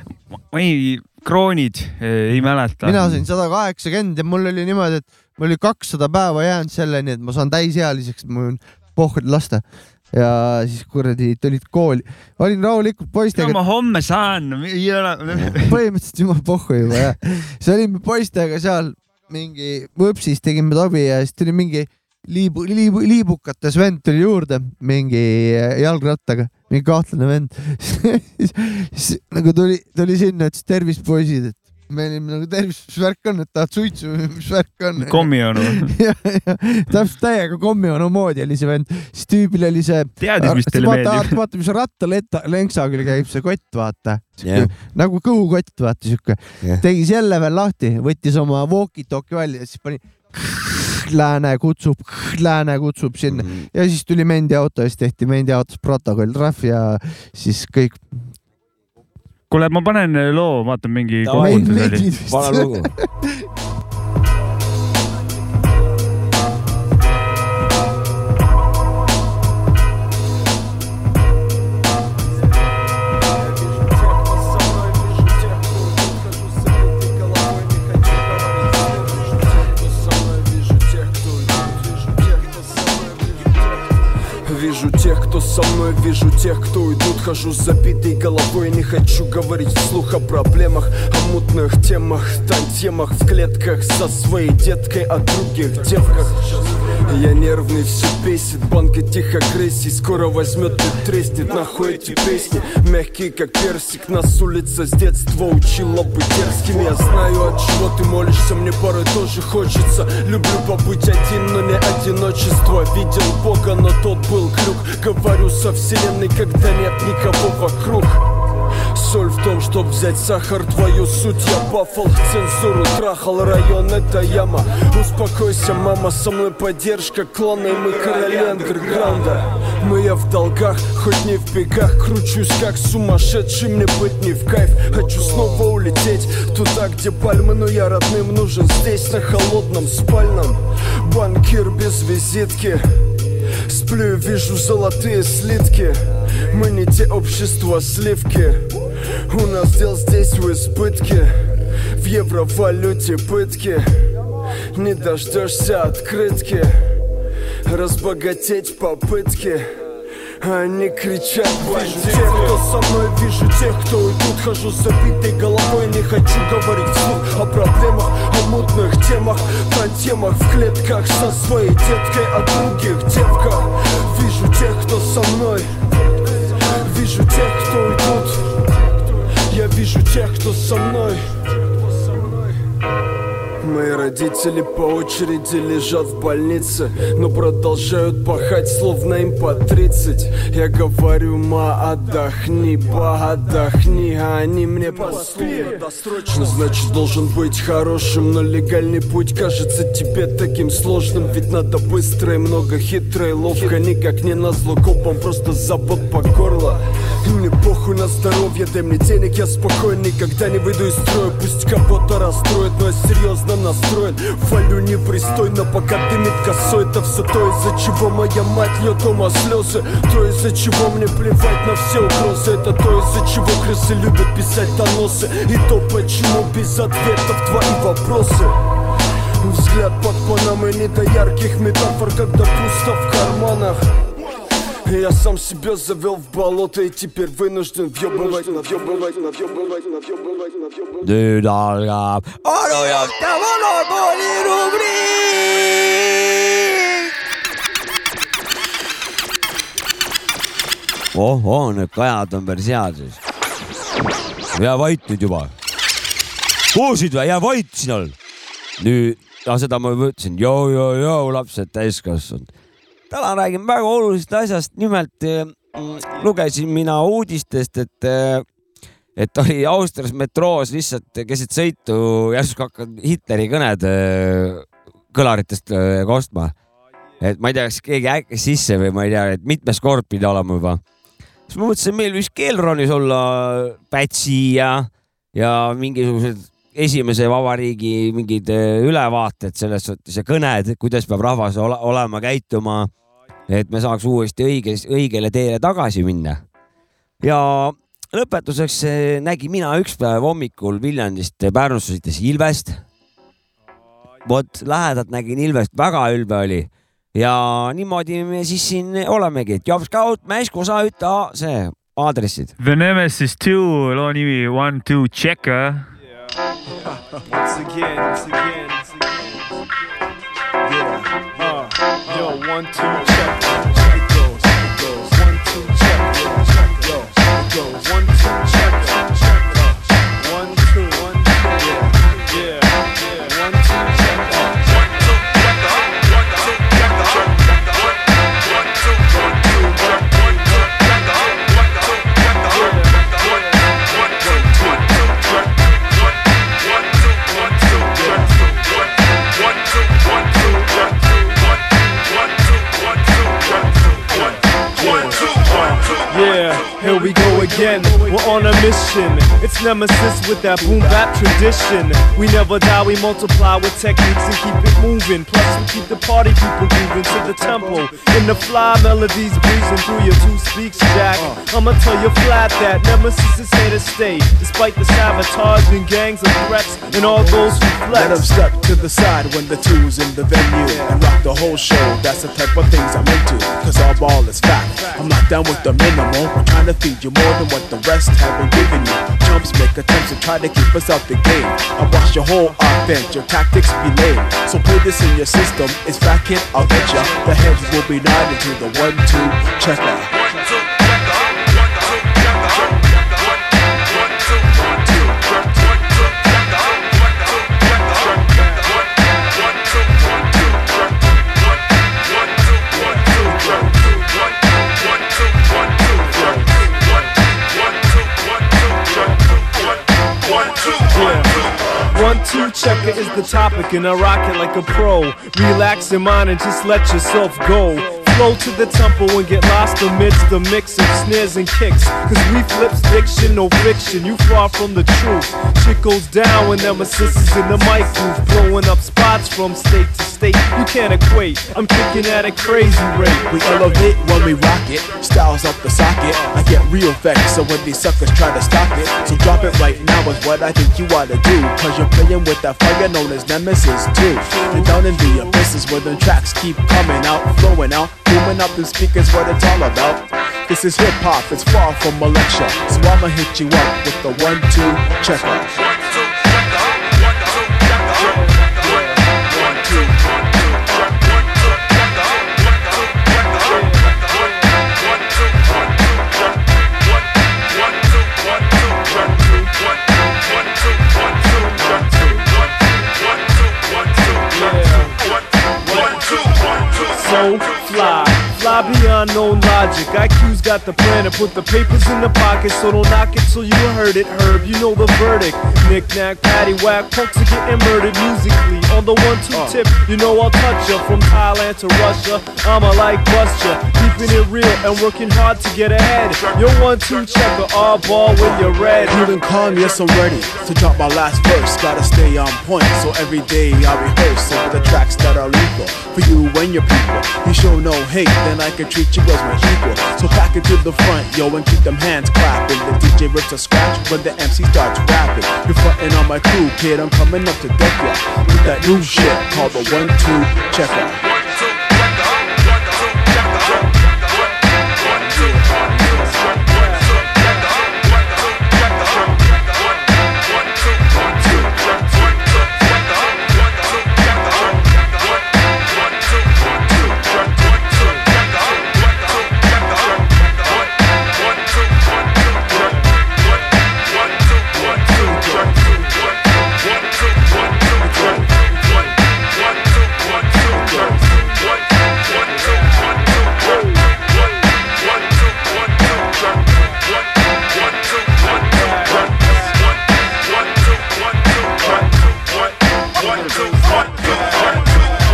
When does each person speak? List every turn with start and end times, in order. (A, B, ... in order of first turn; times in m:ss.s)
0:00.3-0:03.2 A
0:02.8-0:13.6 B
0:13.4-0:15.8 A
0:15.7-0:58.3 B
0:35.0-0:35.9 A
0:40.2-0:41.4 A
0:44.4-0:44.7 C
0:53.3-0:53.7 C
0:59.5-1:02.1 A
1:01.2-1:02.9 C
1:01.4-1:03.3 B
1:13.4-1:58.3 D
1:58.9-2:23.1 D
2:23.6-2:34.2 D
2:34.7-2:37.0 D
2:37.6-2:39.8 D
2:40.4-3:02.4 D
3:03.6-3:48.6 D
3:49.4-3:53.9 D
3:54.8-4:01.0 D
4:01.0-4:07.1 C
4:11.1-4:13.2 C
4:14.5-4:15.5 C
4:16.7-4:18.2 C
4:18.8-4:22.5 C
4:23.1-4:28.4 C
4:29.2-4:36.5 C
4:37.2-4:40.8 C
4:41.5-4:52.9 C
4:53.5-4:56.4 C
4:57.2-5:02.8 C
5:04.2-5:12.5 C
5:12.6-5:15.9 A
5:17.3-5:19.2 E
5:20.7-5:27.8 F
5:21.4-5:23.8 E
5:27.7-5:28.3 E
5:28.3-5:29.0 F
5:30.2-5:31.6 E
5:31.6-5:31.9 F
5:32.3-5:34.5 E
5:48.0-5:48.2 F
5:54.8-5:55.2 E
5:54.8-5:55.6 F
5:56.1-6:18.3 E
5:56.8-5:58.4 F
6:00.6-6:00.9 F
6:07.1-6:08.4 F
6:11.1-6:11.4 F
6:16.9-6:40.1 F
6:20.7-6:21.0 E
7:00.9-7:01.3 E
7:01.9-7:23.9 E
7:23.3-7:45.5 F
8:01.7-8:02.2 E
8:04.3-8:04.9 E
8:05.6-8:06.0 E
8:06.9-8:29.1 E
8:19.3-8:19.6 F
8:28.1-8:50.9 F
8:48.6-8:49.0 E
8:55.0-8:56.4 F
9:15.1-9:15.5 F
9:17.8-9:18.2 F
9:20.5-9:21.0 F
9:34.1-9:34.6 F